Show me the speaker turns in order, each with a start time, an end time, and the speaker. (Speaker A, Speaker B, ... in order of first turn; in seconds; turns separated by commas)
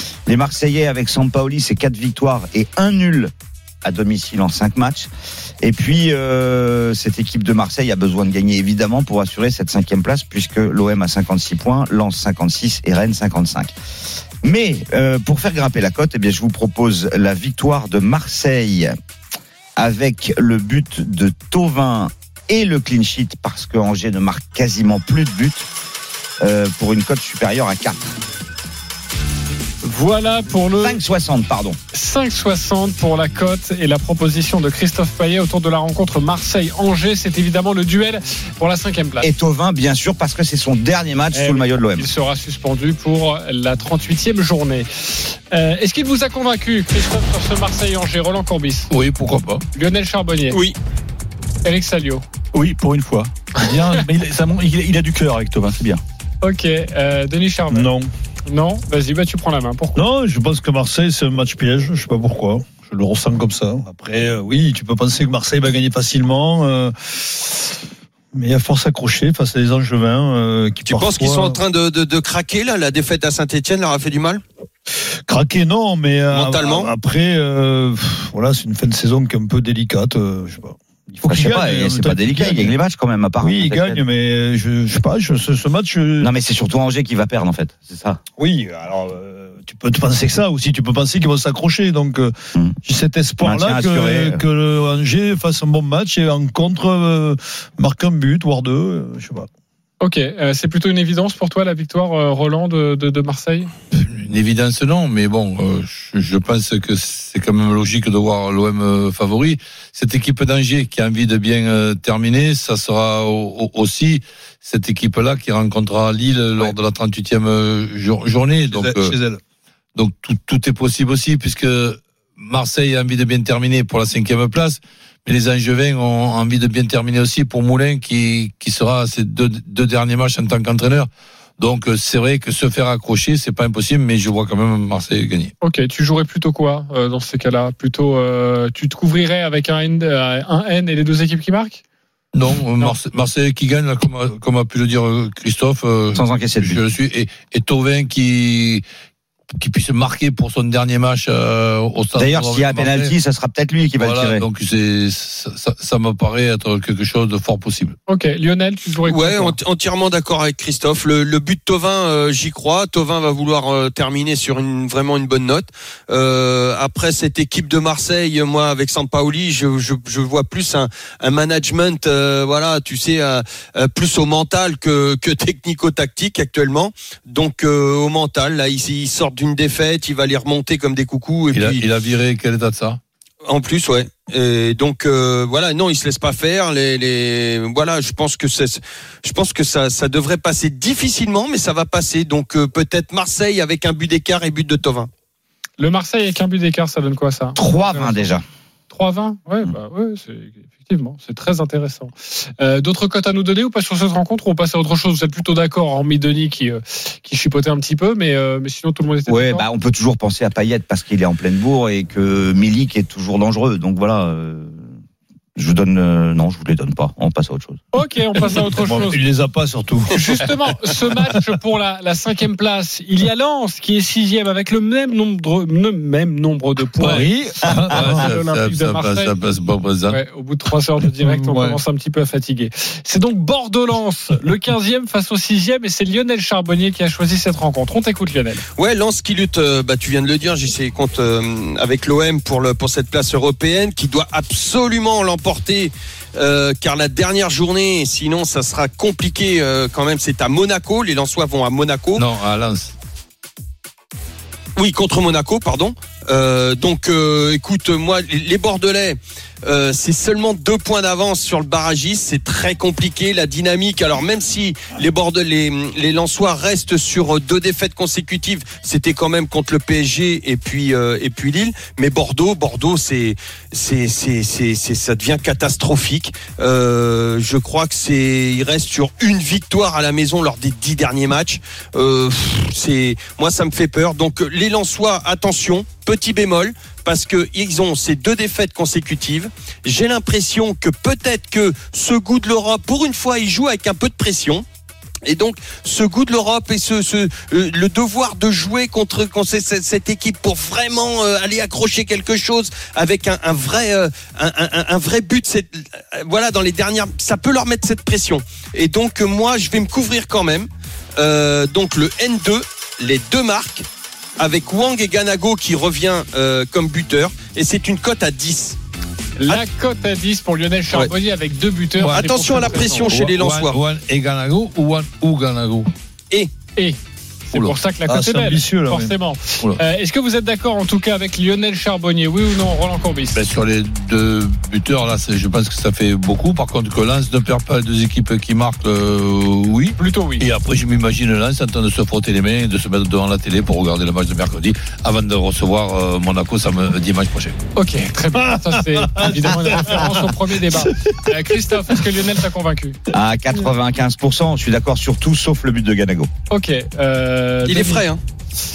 Speaker A: 0.2-3.3, Speaker A: 3.8-5.1, Speaker A: 5.6-13.7, Speaker A: 14.4-18.9, Speaker A: 19.8-25.7, Speaker A: 26.4-28.2, Speaker B: 29.8-31.0, Speaker A: 30.8-31.8, Speaker B: 31.9-39.3, Speaker A: 39.2-42.1, Speaker B: 41.3-48.9, Speaker C: 48.9-49.6, Speaker B: 49.7-50.6, Speaker D: 50.5-50.8, Speaker B: 51.6-52.2, Speaker E: 52.5-56.0, Speaker B: 56.4-57.9, Speaker F: 57.7-58.1, Speaker B: 58.5-60.0, Speaker F: 59.9-67.7, Speaker F: 68.3-71.6, Speaker D: 70.8-74.4, Speaker F: 75.3-82.7, Speaker D: 76.3-76.9, Speaker A: 81.2-84.0, Speaker F: 83.4-86.3, Speaker A: 86.2-88.2, Speaker F: 88.4-99.5, Speaker A: 93.4-94.4, Speaker B: 100.0-103.7, Speaker C: 103.9-119.2, Speaker F: 118.7-119.4, Speaker C: 119.9-135.5, Speaker B: 135.6-141.8, Speaker C: 142.3-148.8, Speaker A: 146.1-146.8, Speaker C: 149.6-153.1, Speaker A: 152.2-154.4, Speaker C: 154.0-157.9, Speaker B: 158.1-159.6, Speaker D: 159.1-181.8, Speaker C: 181.5-183.0, Speaker D: 183.4-195.1, Speaker B: 195.8-198.3, Speaker A: 197.6-198.4, Speaker B: 198.9-209.6, Speaker A: 209.3-214.9, Speaker A: 215.6-217.8, Speaker B: 217.9-219.2, Speaker F: 218.7-220.4, Speaker B: 220.1-227.3, Speaker C: 227.0-230.2, Speaker F: 227.0-228.3, Speaker B: 227.9-229.3, Speaker B: 230.1-238.6, Speaker F: 231.2-231.8, Speaker D: 238.8-252.2, Speaker C: 252.1-252.9, Speaker D: 254.8-294.6, Speaker D: 295.2-313.9, Speaker D: 314.4-318.8, Speaker B: 319.4-323.1, Speaker C: 322.0-325.9, Speaker D: 322.1-323.8, Speaker B: 327.5-333.4, Speaker F: 328.1-329.1, Speaker C: 333.3-347.6, Speaker B: 340.0-340.4, Speaker B: 347.8-353.0, Speaker F: 348.3-351.1, Speaker A: 353.1-356.3, Speaker B: 356.5-358.0, Speaker D: 357.6-358.2